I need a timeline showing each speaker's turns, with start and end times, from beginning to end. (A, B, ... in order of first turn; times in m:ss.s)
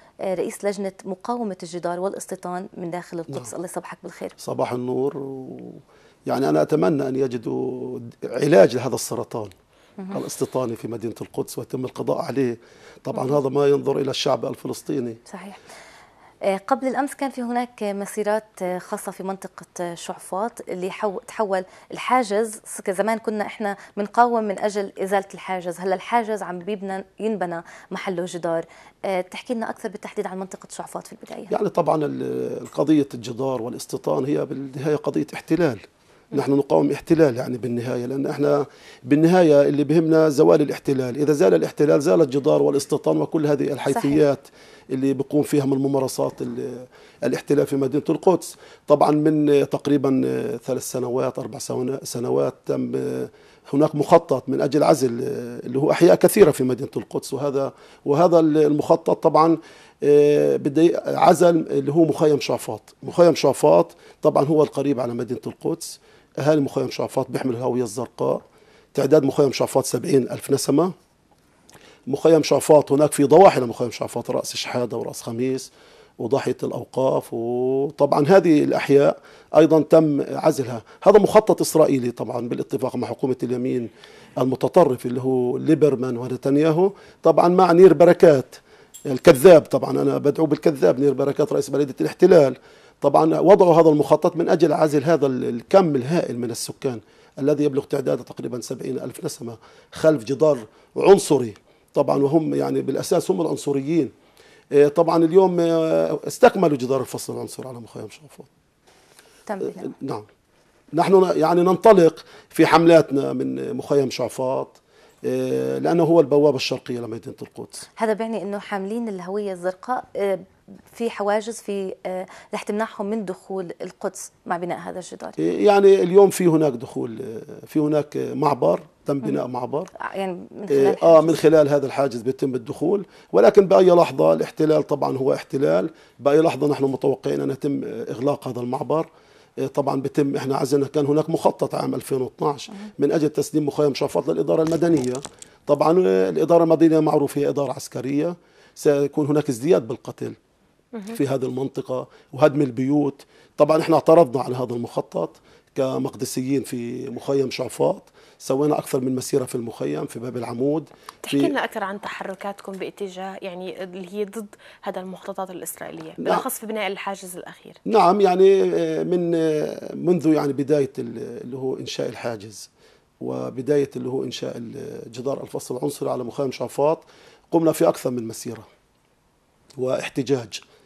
0:00.3-0:04.3 A
0:04.4-0:09.5 B
0:10.1-0:15.2 B
0:15.3-0:15.6 A
0:16.5-0:31.5 A
0:31.5-1:08.4 B
0:43.9-0:44.2 A
1:08.9-1:10.9 B
1:12.1-1:44.1 B
1:44.7-1:48.5 B
1:49.5-1:49.9 A
1:49.8-1:50.2 B
1:50.9-1:57.8 B
1:58.0-2:05.4 A
2:05.4-2:09.9 B
2:10.1-2:11.4 A
2:10.7-2:19.1 B
2:19.6-2:30.4 B
2:31.1-2:41.5 B
2:41.2-2:47.8 C
2:46.2-2:46.4 B
2:47.8-2:52.7 B
2:53.2-2:58.7 B
2:59.8-3:00.6 B